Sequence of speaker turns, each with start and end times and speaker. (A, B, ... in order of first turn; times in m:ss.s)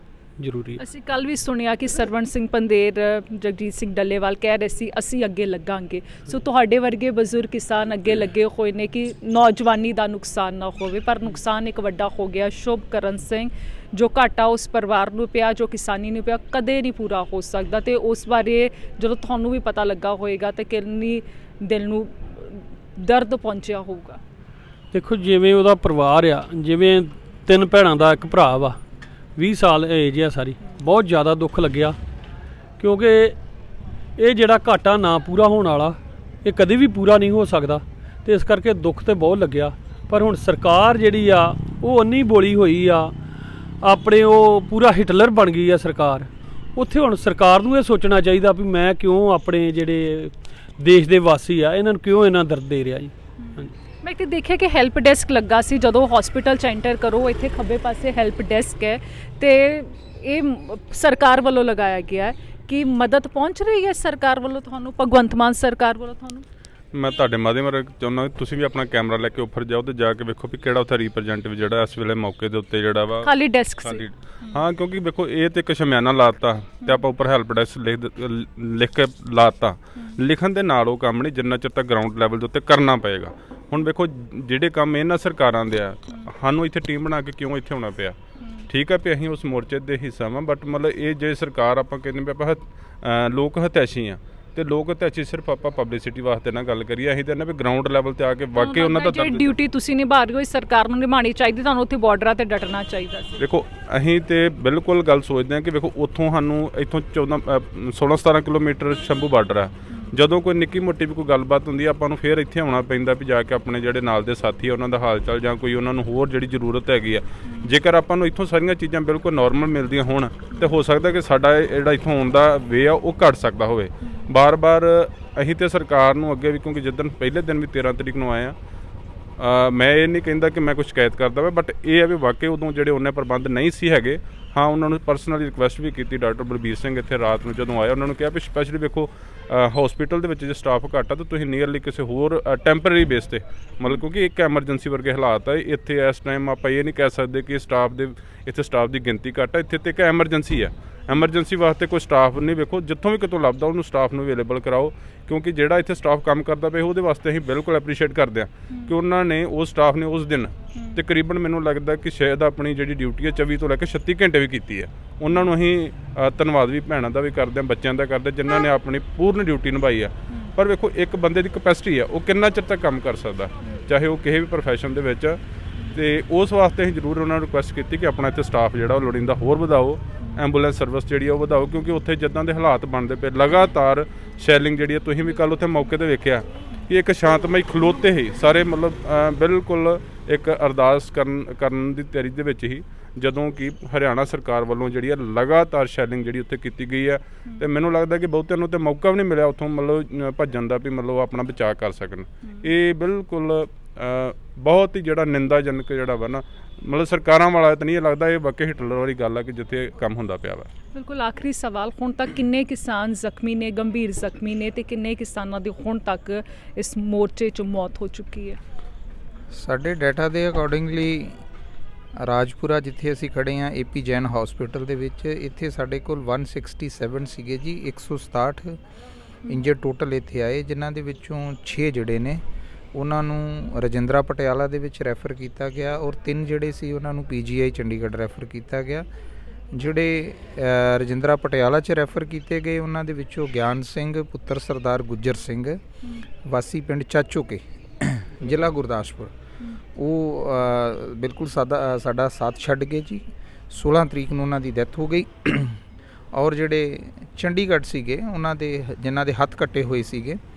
0:00.4-0:00.8 A
0:00.8-0:24.2 B
0:24.9-0:28.8 A
0:29.4-0:32.0 A
0:32.8-0:33.4 A
0:34.2-0:43.1 A
0:43.8-0:53.7 A
0:53.4-1:06.4 B
1:06.9-1:28.2 C
1:13.2-1:14.6 B
1:28.4-1:28.7 B
1:28.7-1:39.5 C
1:38.6-1:43.4 B
1:43.4-2:08.5 C
1:49.9-1:50.1 B
1:57.4-1:57.8 B
2:04.0-2:04.3 B
2:09.4-2:55.4 C
2:38.7-2:38.9 B
2:40.7-2:41.0 B
2:55.9-3:30.7 C
3:30.9-3:38.6 B
3:39.5-3:41.4 D
3:42.2-3:48.8 D
3:49.5-3:52.4 D
3:52.9-3:59.0 D
3:59.7-4:05.8 D
4:06.4-4:09.3 D
4:10.0-4:15.8 D
4:16.3-4:20.4 D